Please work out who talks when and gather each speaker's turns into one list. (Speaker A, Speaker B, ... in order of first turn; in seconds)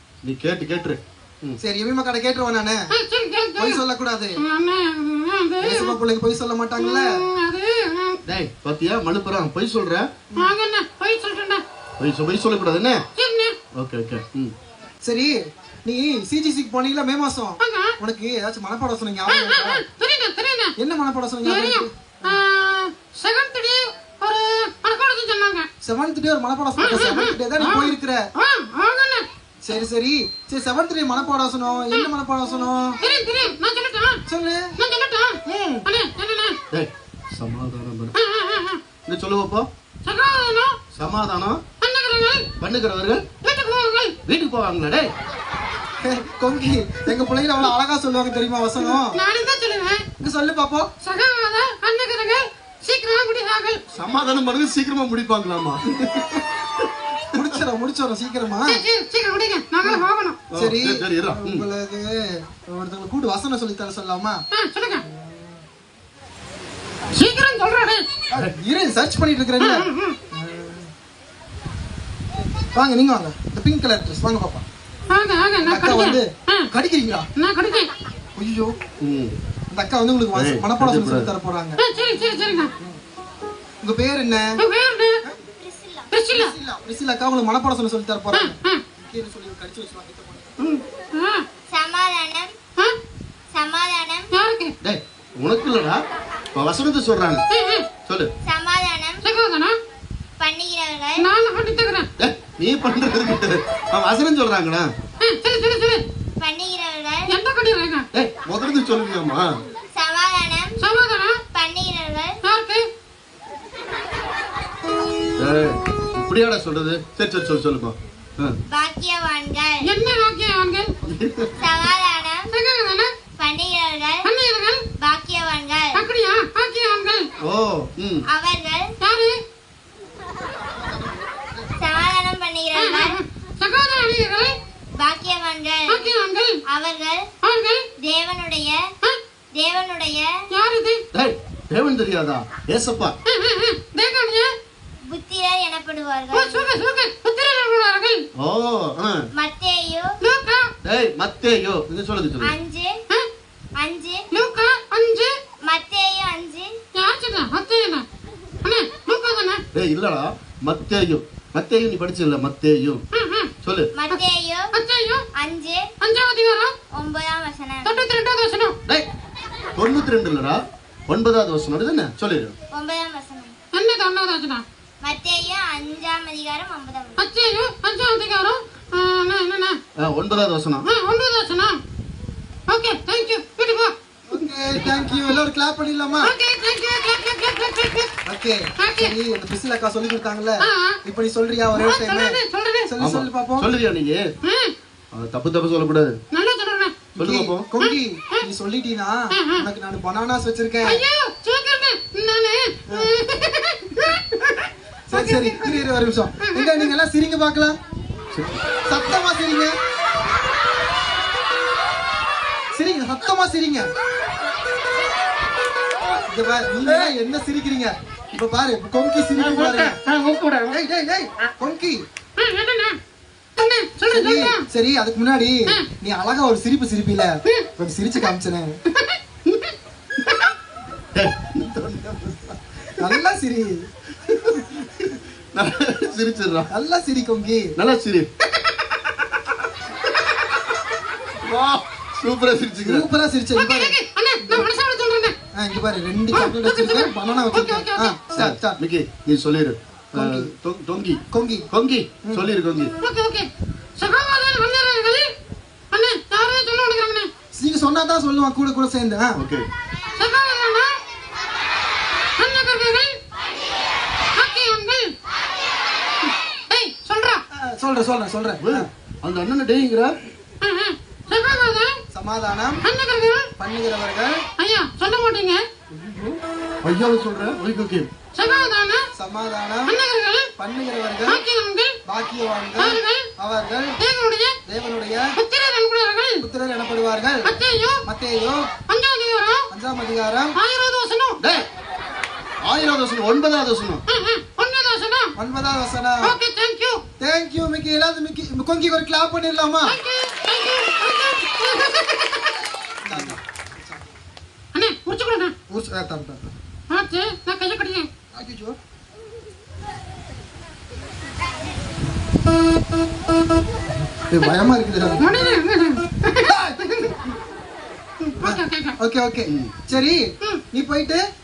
Speaker A: 0.2-1.6, 8.3-10.1, 12.0-13.0, 13.8-14.5, 36.7-38.2, 39.1-39.7, 40.9-41.6, 42.6-43.2, 44.3-45.1, 53.9-57.5, 60.5-61.7, 79.0-79.4, 80.3-81.3, 94.8-96.0, 96.5-97.4, 98.1-98.3, 102.2-104.9, 108.1-109.5, 115.4-118.6, 121.1-121.5, 127.4-128.3, 141.1-143.2, 148.4-149.2, 150.8-152.6, 159.7-163.0, 163.6-163.9, 169.8-172.6, 180.0-180.9, 184.7-185.1, 193.0-194.3, 195.1-196.2, 197.2-197.7, 208.3-208.7, 220.2-220.5, 231.2-233.2, 234.2-236.7, 237.8-238.3, 241.4-243.1, 248.3-252.9, 259.4-259.7, 268.6-270.1, 275.9-278.1, 291.4-291.7, 292.6-294.0, 319.5-319.9
Speaker B: 1.6-2.9, 3.6-4.4, 5.6-7.1, 15.0-19.8, 20.8-22.4, 25.8-28.3, 29.6-33.0, 34.3-34.8, 35.5-35.9, 46.0-49.2, 50.2-50.9, 57.3-58.8, 59.8-64.4, 65.0-65.6, 68.3-70.9, 72.7-74.7, 75.6-77.3, 78.4-78.7, 79.7-81.8, 83.8-84.6, 86.3-90.6, 130.7-131.5, 184.3-186.3, 188.2-193.7, 197.2-201.0, 205.1-207.8, 208.9-209.8, 212.7-213.9, 216.3-220.0, 220.6-222.0, 224.1-228.8, 233.0-233.8, 236.7-237.8, 242.8-244.0, 245.5-248.8, 250.1-250.5, 251.3-251.7, 257.6-259.4, 267.5-268.9, 272.1-272.9, 273.6-274.4, 279.1-279.9, 280.6-281.4, 282.1-284.0, 284.7-285.3, 286.4-287.5, 288.1-288.7, 289.7-290.6, 295.4-296.4, 297.2-300.0, 303.0-304.1, 305.7-306.5, 308.3-308.8, 314.3-315.4, 316.5-317.1, 318.4-320.2, 320.7-321.2
Speaker C: 2.9-3.8, 4.4-6.0, 6.8-8.2, 10.4-11.6, 13.2-13.6, 17.6-17.9, 19.3-20.7, 21.4-25.7, 26.8-29.3, 33.0-34.2, 34.8-36.6, 38.2-38.8, 40.0-40.8, 41.8-42.5, 43.4-44.2, 48.9-50.0, 51.0-53.8, 58.7-60.4, 64.5-65.0, 67.1-68.1, 69.6-70.2, 75.1-76.7, 77.4-77.9, 81.8-82.7, 84.6-85.2, 86.1-86.5, 88.3-88.8, 91.2-91.5, 94.3-94.7, 97.5-97.9, 99.2-99.8, 101.2-102.1, 105.2-106.0, 107.3-108.0, 110.8-111.4, 112.4-112.9, 119.8-120.9, 122.5-123.1, 124.2-124.9, 126.0-127.3, 129.0-129.4, 132.8-134.6, 135.9-136.6, 137.4-137.9, 140.5-141.0, 143.3-144.6, 146.3-148.2, 150.2-150.7, 154.3-155.4, 157.0-158.1, 158.6-159.6, 163.1-163.5, 164.7-165.3, 166.0-166.8, 167.8-168.8, 173.7-174.6, 177.2-179.8, 180.9-181.8, 182.7-183.9, 186.2-188.1, 188.8-189.1, 190.6-191.0, 191.7-192.9, 194.4-194.7, 196.3-197.0, 197.8-198.4, 199.3-199.6, 200.8-205.7, 206.4-206.9, 222.4-223.0, 223.6-224.7, 243.6-245.4, 246.3-248.2, 253.0-255.3, 255.9-257.3, 260.2-261.0, 262.4-263.2, 264.4-265.1, 266.7-267.4, 270.6-272.0, 272.8-273.5, 274.6-275.6, 278.4-279.1, 279.9-280.5, 281.3-282.0, 282.8-283.3, 284.0-284.6, 285.4-286.4, 287.4-288.0, 288.9-289.7, 290.6-291.4, 294.1-295.4, 296.2-297.0, 299.9-302.6, 304.7-305.6, 306.9-308.1, 315.2-316.5, 318.2-319.0
Speaker D: 85.6-86.1, 91.7-92.5, 93.5-94.3, 98.4-99.2, 100.4-101.3, 106.4-107.3, 109.9-110.8, 111.5-112.4, 118.7-119.9, 121.6-122.5, 123.4-124.3, 125.0-126.0, 128.3-128.9, 131.8-133.2, 135.0-136.0, 136.7-137.2, 138.0-138.8, 139.5-140.3, 145.1-146.7, 149.3-150.1, 152.4-152.9, 153.8-154.3, 155.6-156.7, 163.9-164.7, 165.3-165.9, 166.9-168.1, 172.7-173.6, 175.0-177.2